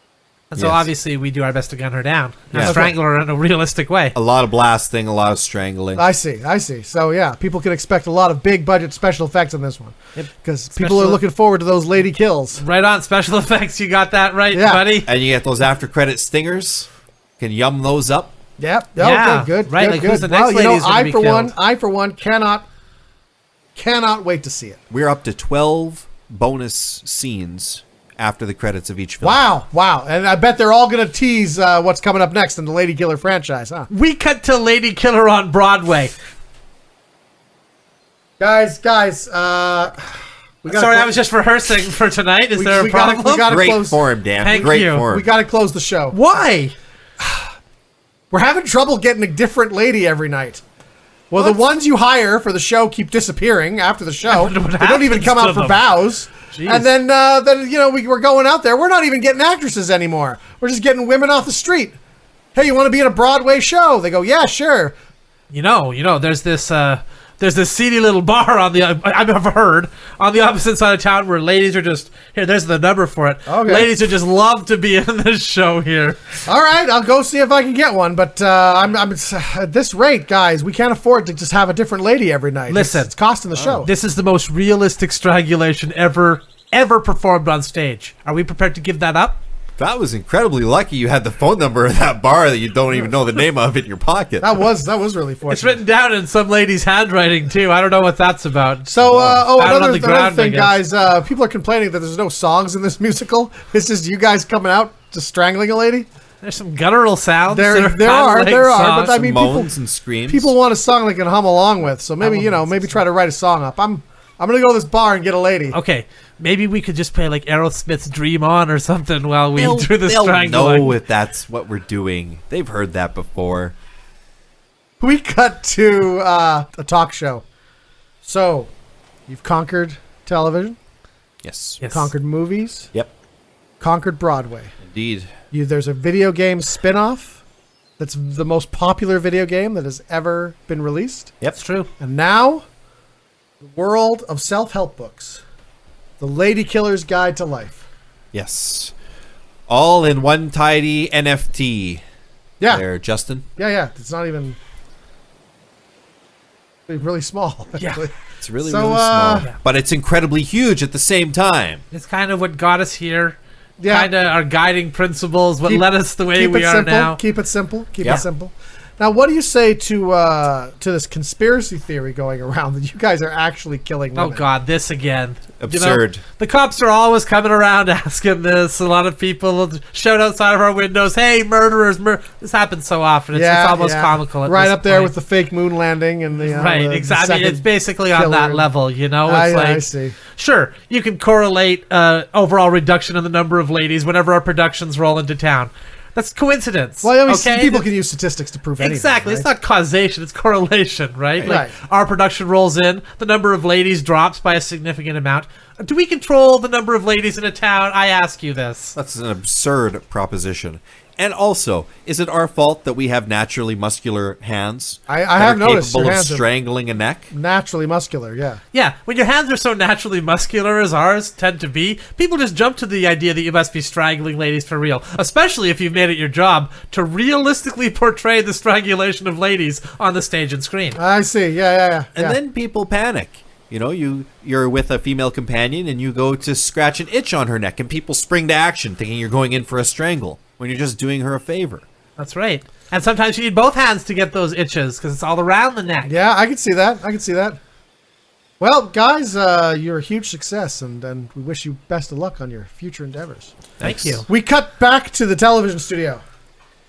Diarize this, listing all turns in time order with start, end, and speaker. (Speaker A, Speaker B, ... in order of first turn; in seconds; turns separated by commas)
Speaker A: 0.5-4.2, Speaker B: 0.6-0.9, Speaker B: 2.5-2.8, Speaker C: 2.6-2.9, Speaker B: 4.1-6.0, Speaker C: 6.0-12.6, Speaker A: 10.2-11.2, Speaker A: 12.6-15.1, Speaker C: 14.5-14.9, Speaker B: 15.1-18.4, Speaker C: 18.6-22.6, Speaker A: 19.0-21.5, Speaker C: 23.8-24.8, Speaker B: 24.9-29.4, Speaker C: 29.2-33.9, Speaker A: 33.9-36.1, Speaker C: 38.4-40.1, Speaker C: 40.6-41.1, Speaker A: 40.6-43.6, Speaker C: 42.5-44.0, Speaker B: 43.5-45.3, Speaker A: 44.4-45.0, Speaker C: 44.6-46.2, Speaker A: 46.1-46.7, Speaker C: 47.2-47.5, Speaker C: 48.3-50.6, Speaker C: 51.3-62.0, Speaker A: 54.3-55.8, Speaker A: 56.5-56.9, Speaker C: 62.5-64.9, Speaker A: 65.5-76.2, Speaker C: 73.5-73.9, Speaker C: 76.5-83.9, Speaker A: 82.7-83.1, Speaker A: 83.7-89.4, Speaker B: 89.8-94.6, Speaker C: 94.4-95.8, Speaker A: 95.5-98.9, Speaker C: 98.9-106.1, Speaker B: 99.0-99.5, Speaker A: 99.5-100.7, Speaker A: 106.4-109.2, Speaker C: 107.5-109.7, Speaker B: 109.1-110.5, Speaker C: 110.3-115.8, Speaker A: 112.2-113.0, Speaker A: 115.7-121.0, Speaker B: 119.5-123.8, Speaker C: 125.0-127.4, Speaker C: 128.2-128.7, Speaker C: 129.3-130.8, Speaker B: 131.4-131.8, Speaker A: 131.8-132.1, Speaker C: 131.9-132.9, Speaker C: 133.8-134.7, Speaker B: 134.8-135.3, Speaker C: 135.5-137.4, Speaker C: 138.0-141.3, Speaker A: 141.6-141.9, Speaker C: 142.0-142.6, Speaker C: 143.6-145.4, Speaker C: 146.2-147.8, Speaker B: 148.3-148.9, Speaker B: 149.7-152.0, Speaker B: 152.7-153.4, Speaker C: 153.6-154.6, Speaker C: 156.9-159.5, Speaker A: 157.8-158.0, Speaker B: 158.4-161.8, Speaker A: 161.9-163.4, Speaker C: 163.8-164.1, Speaker A: 163.9-167.2, Speaker C: 165.6-174.4, Speaker A: 174.1-185.1, Speaker B: 175.6-176.2, Speaker C: 183.3-188.7, Speaker A: 186.4-197.8, Speaker C: 189.2-190.2, Speaker C: 197.0-199.5, Speaker A: 198.8-208.9, Speaker C: 201.4-201.7, Speaker B: 208.9-217.3, Speaker C: 215.1-216.4, Speaker C: 217.3-218.6, Speaker A: 218.7-231.0, Speaker C: 230.9-232.4, Speaker B: 232.2-241.8, Speaker A: 242.2-246.1, Speaker C: 246.1-247.6, Speaker C: 248.6-253.5, Speaker A: 253.8-254.2, Speaker B: 253.8-254.1, Speaker C: 254.2-256.2